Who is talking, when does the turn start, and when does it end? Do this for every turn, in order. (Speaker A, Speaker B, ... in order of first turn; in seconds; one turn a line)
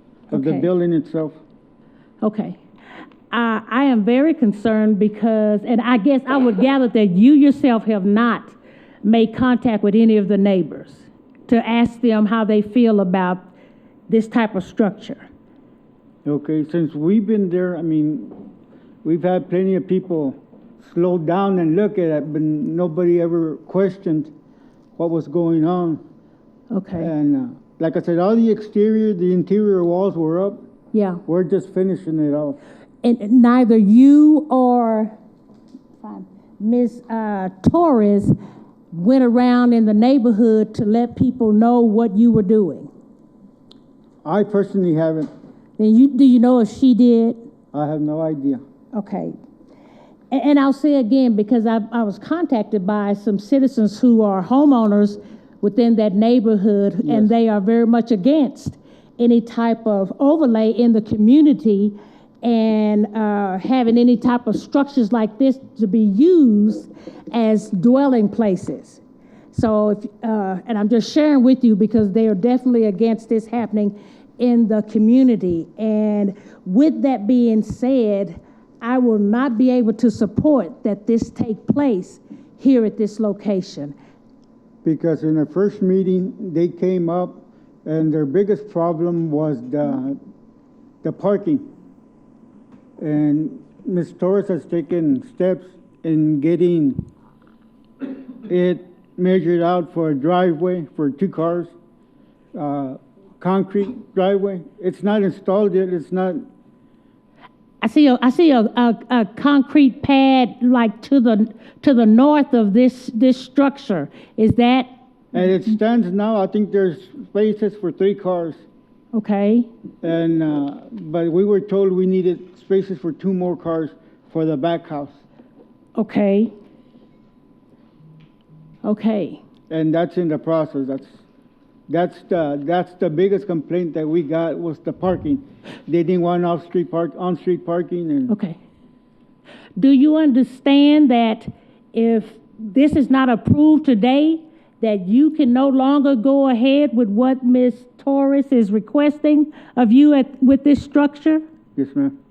Speaker A: 0.3-0.7
Speaker B: 0.3-1.4
Speaker A: 2.2-2.6
Speaker A: 3.3-13.5
Speaker A: 14.1-15.2
Speaker B: 16.2-18.4
Speaker B: 19.0-24.3
Speaker B: 25.0-26.0
Speaker A: 26.7-27.1
Speaker B: 27.0-30.6
Speaker A: 30.9-31.2
Speaker B: 31.3-32.6
Speaker A: 33.0-35.1
Speaker A: 36.0-38.3
Speaker A: 38.9-42.9
Speaker B: 44.2-45.3
Speaker A: 45.8-47.4
Speaker B: 47.7-48.6
Speaker A: 48.9-49.3
Speaker A: 50.3-69.0
Speaker B: 57.0-57.3
Speaker A: 69.5-83.9
Speaker B: 84.8-90.2
Speaker B: 91.0-91.7
Speaker B: 93.0-97.0
Speaker B: 98.5-101.7
Speaker B: 102.5-106.4
Speaker A: 107.8-114.9
Speaker B: 115.3-118.6
Speaker A: 119.1-119.7
Speaker B: 120.0-125.2
Speaker A: 126.0-126.5
Speaker A: 128.8-129.4
Speaker B: 129.7-131.2
Speaker B: 131.9-138.3
Speaker A: 138.3-138.6
Speaker A: 139.8-151.4
Speaker B: 151.8-152.1